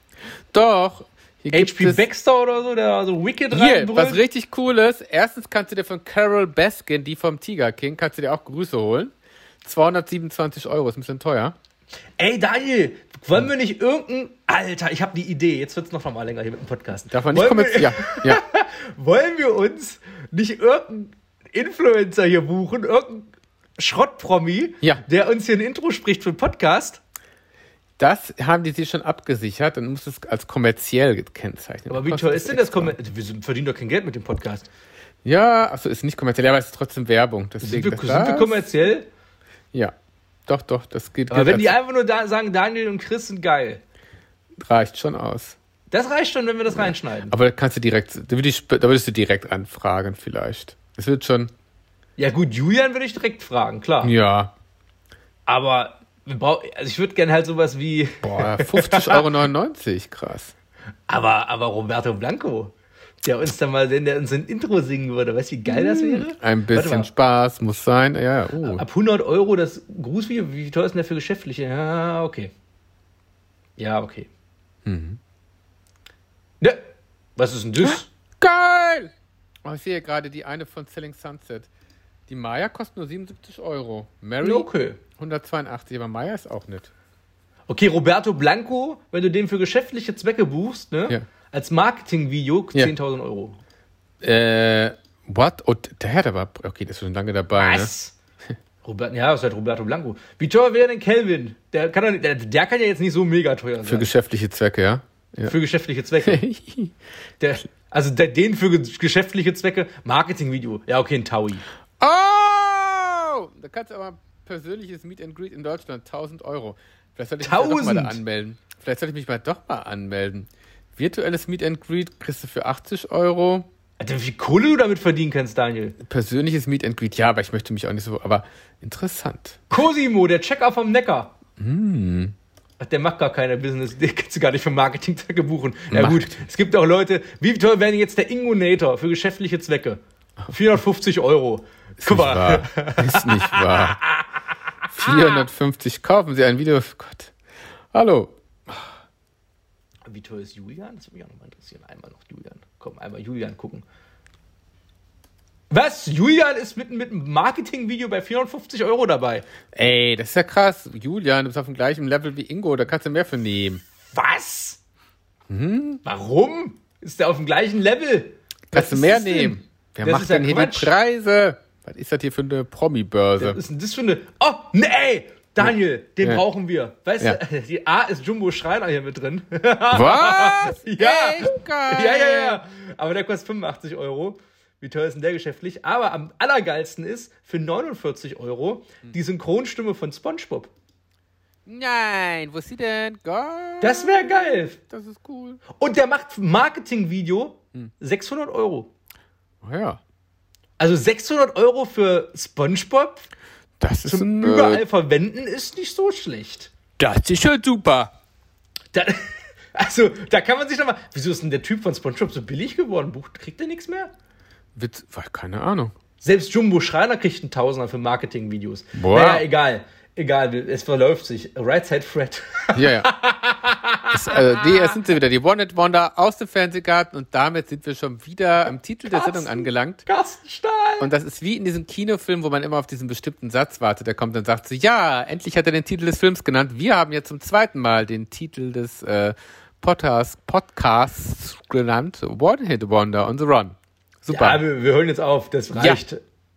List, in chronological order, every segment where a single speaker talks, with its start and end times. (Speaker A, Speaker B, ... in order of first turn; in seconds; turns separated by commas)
Speaker A: 0.5-2.0, Speaker B: 1.5-4.2, Speaker A: 3.5-11.6, Speaker B: 12.2-27.0, Speaker A: 17.1-18.4, Speaker A: 28.0-32.9, Speaker B: 31.9-34.7, Speaker A: 35.2-38.6, Speaker B: 37.6-39.1, Speaker A: 40.5-41.8, Speaker B: 41.3-43.8, Speaker A: 44.6-45.6, Speaker B: 45.9-47.4, Speaker A: 46.7-51.5, Speaker B: 52.2-54.1, Speaker A: 54.0-54.5, Speaker B: 55.5-59.3, Speaker A: 58.2-60.5, Speaker B: 61.1-67.1, Speaker A: 65.7-68.8, Speaker B: 68.6-72.5, Speaker B: 73.8-74.3, Speaker A: 74.8-75.2, Speaker B: 77.4-78.1, Speaker A: 77.8-79.1, Speaker A: 79.7-81.7, Speaker A: 82.3-86.9, Speaker B: 84.4-85.0, Speaker B: 87.7-93.6, Speaker A: 94.2-97.9, Speaker B: 97.5-98.2, Speaker B: 98.8-104.1, Speaker A: 103.8-105.5, Speaker B: 105.5-106.4, Speaker A: 106.2-106.9, Speaker B: 107.4-111.7, Speaker A: 112.0-123.7, Speaker B: 117.4-118.2, Speaker B: 124.0-126.0, Speaker A: 126.0-129.7, Speaker B: 129.7-131.3, Speaker A: 131.6-132.3, Speaker B: 132.8-144.2, Speaker A: 135.9-136.3, Speaker A: 142.0-144.0, Speaker A: 144.9-147.3, Speaker A: 147.9-148.9, Speaker B: 150.1-153.8, Speaker B: 155.7-159.5, Speaker A: 159.7-163.8, Speaker B: 164.1-164.8, Speaker A: 165.5-166.0, Speaker B: 166.1-170.9, Speaker A: 168.7-173.6, Speaker B: 173.4-190.7, Speaker A: 175.6-176.4, Speaker A: 179.9-182.6, Speaker A: 191.7-195.6, Speaker B: 193.8-194.8, Speaker B: 195.7-198.9, Speaker A: 199.6-200.0, Speaker B: 200.8-203.3, Speaker A: 203.8-204.8, Speaker B: 204.1-206.7, Speaker A: 207.0-208.1, Speaker B: 208.9-214.1, Speaker A: 214.8-215.9, Speaker B: 216.2-224.9, Speaker A: 218.9-219.4, Speaker A: 222.8-223.1, Speaker A: 224.1-230.1, Speaker B: 229.1-231.1, Speaker A: 231.0-244.6, Speaker B: 244.3-246.2, Speaker A: 245.8-246.0